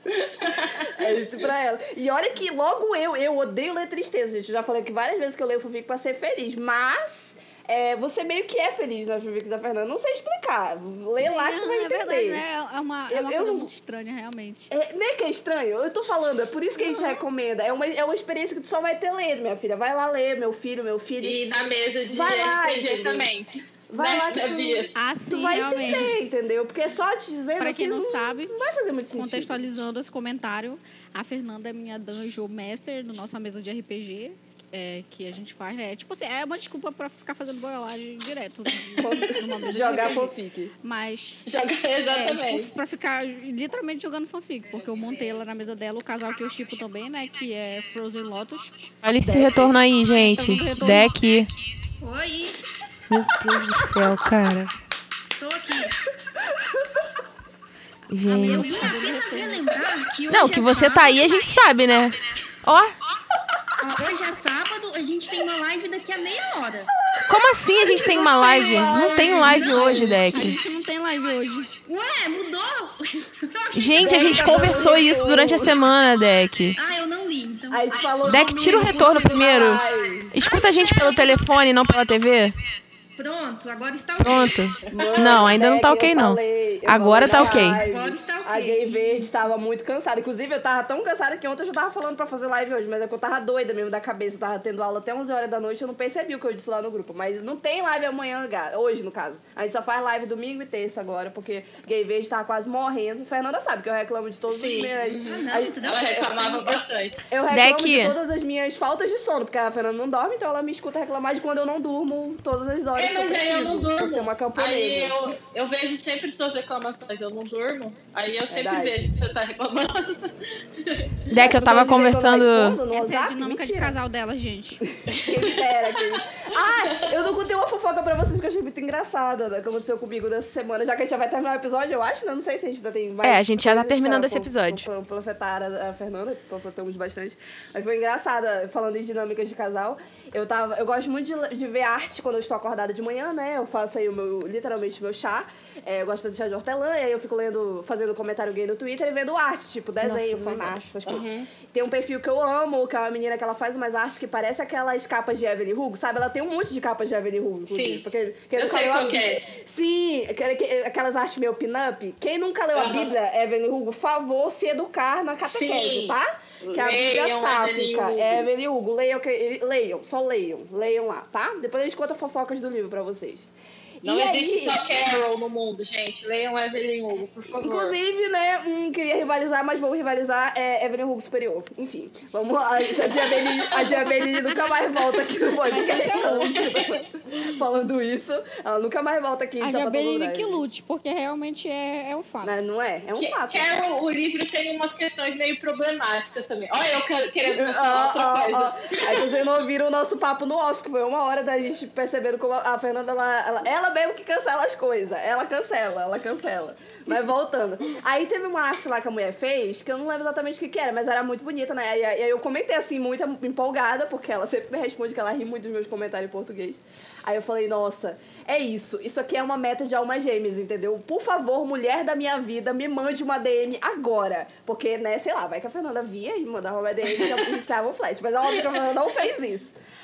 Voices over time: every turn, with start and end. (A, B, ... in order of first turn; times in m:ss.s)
0:00.2-0:00.9 A
0:00.8-0:12.4 B
0:11.2-0:14.7 C
0:13.1-0:13.7 B
0:14.7-0:21.4 B
0:16.8-0:17.2 C
0:21.2-0:24.9 A
0:22.0-0:23.3 B
0:23.9-0:29.5 B
0:25.0-0:26.2 C
0:27.6-0:28.6 C
0:29.2-0:41.4 C
0:39.0-0:40.7 B
0:41.5-0:42.7 A
0:42.1-0:48.9 C
0:49.0-0:51.5 D
0:50.1-0:51.2 C
0:50.4-0:51.1 E
0:52.0-0:52.6 E
0:53.1-0:54.7 D
0:55.3-0:56.0 E
0:58.1-0:58.9 D
0:58.3-0:59.6 C
0:58.3-1:01.4 E
1:00.3-1:03.0 D
1:03.8-1:06.9 E
1:07.3-1:10.6 D
1:07.8-1:10.3 B
1:07.9-1:10.5 E
1:10.3-1:11.8 C
1:11.9-1:15.7 E
1:13.7-1:16.8 D
1:14.0-1:15.7 B
1:16.8-1:21.4 E
1:17.7-1:20.3 B
1:18.3-1:22.6 D
1:23.2-1:24.6 E
1:24.2-1:27.8 D
1:24.9-1:46.3 B
1:27.3-1:29.3 E
1:44.5-1:47.2 A
1:45.2-1:46.7 E
1:47.3-1:55.3 B
1:47.5-1:48.2 D
1:53.0-2:01.1 A
1:58.5-1:59.0 B
2:01.3-2:02.8 D
2:01.3-2:04.0 B
2:02.9-2:04.8 C
2:05.0-2:53.5 B
2:05.1-2:05.6 A
2:13.2-2:14.9 D
2:30.0-2:30.8 E
2:31.1-2:31.5 A
2:37.7-2:38.1 A
2:38.6-2:39.5 A
2:42.8-2:43.1 A
2:45.5-2:48.5 A
2:54.0-2:54.8 B
2:54.0-2:58.0 A
2:57.6-3:10.6 B
3:03.8-3:04.7 C
3:05.7-3:07.0 C
3:06.2-3:06.6 A
3:09.6-3:12.5 C
3:12.4-3:13.7 B
3:13.2-3:19.3 A
3:17.5-3:49.8 B